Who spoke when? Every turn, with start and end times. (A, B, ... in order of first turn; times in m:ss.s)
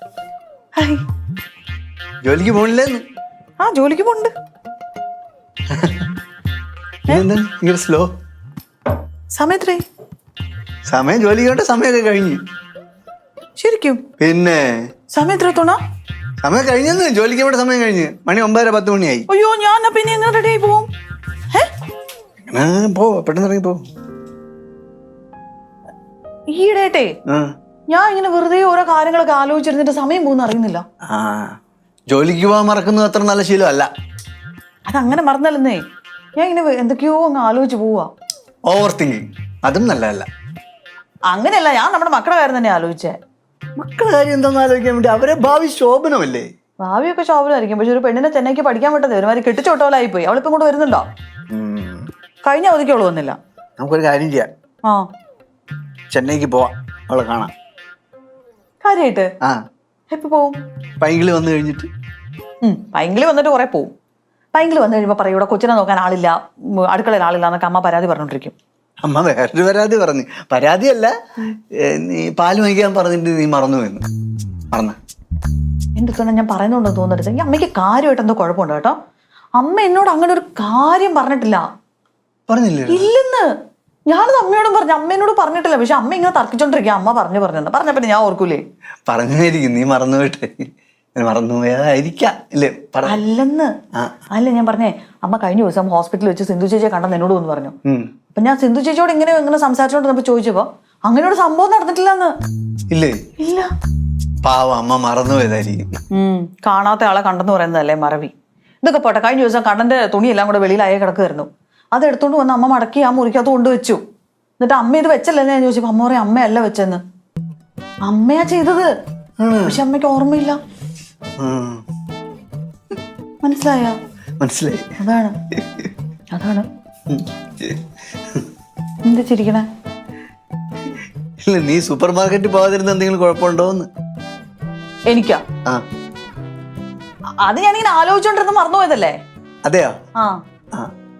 0:00.8-0:01.0 A
0:02.2-0:03.0 B
0:03.6-0:04.3 A
0:05.7-0:06.1 B
0:07.1-0:08.1 B
0:09.3-0:09.8 A
0:10.9-0:12.4 B
0:13.6-0:14.0 A
0:14.2-0:14.8 B
0:15.1-0:15.8 A
0:16.4-0:19.3 B
0:19.3-0:20.9 A
0:22.5-0:23.8 B
0:26.5-0:27.1 A
0:27.9-0:30.8 A
0:31.1-0:31.5 B
0:32.1-0:33.9 B
0:34.9-0:35.8 A
0:36.4-0:38.1 A
0:38.7-0:40.3 B
0:41.3-0:43.2 A
0:43.8-0:46.5 B
0:46.8-0:51.0 A
0:51.5-0:52.1 B
0:52.4-0:53.4 A
0:53.8-0:54.5 B
0:56.1-0:57.5 B
0:58.8-0:59.3 A
1:00.1-1:00.6 A
1:01.0-1:01.9 B
1:02.6-1:03.9 A
1:04.5-1:08.5 A
1:09.0-1:11.1 B
1:11.7-1:14.0 B
1:14.7-1:15.0 B
1:16.0-1:19.0 A
1:19.6-1:21.6 A
1:22.5-1:23.1 B
1:22.9-1:23.5 A
1:24.1-1:28.6 A
1:29.1-1:33.2 B
1:33.0-1:33.7 A
1:34.3-1:37.7 A
1:38.3-1:42.3 A
1:42.9-1:43.2 B
1:43.4-1:43.7 A
1:44.4-1:45.9 B
1:46.1-1:48.3 A
1:48.8-1:54.0 A
1:54.6-1:57.0 A
1:58.0-1:58.9 A
1:59.4-1:59.8 B
1:59.6-2:00.6 A
2:01.4-2:01.8 B
2:03.4-2:04.0 A
2:04.4-2:04.9 B
2:05.0-2:05.3 A
2:05.6-2:05.9 B
2:06.3-2:06.6 A
2:07.1-2:07.8 B
2:09.0-2:09.7 A
2:11.4-2:13.9 B
2:15.1-2:15.4 A
2:17.4-2:19.2 A
2:19.6-2:20.0 B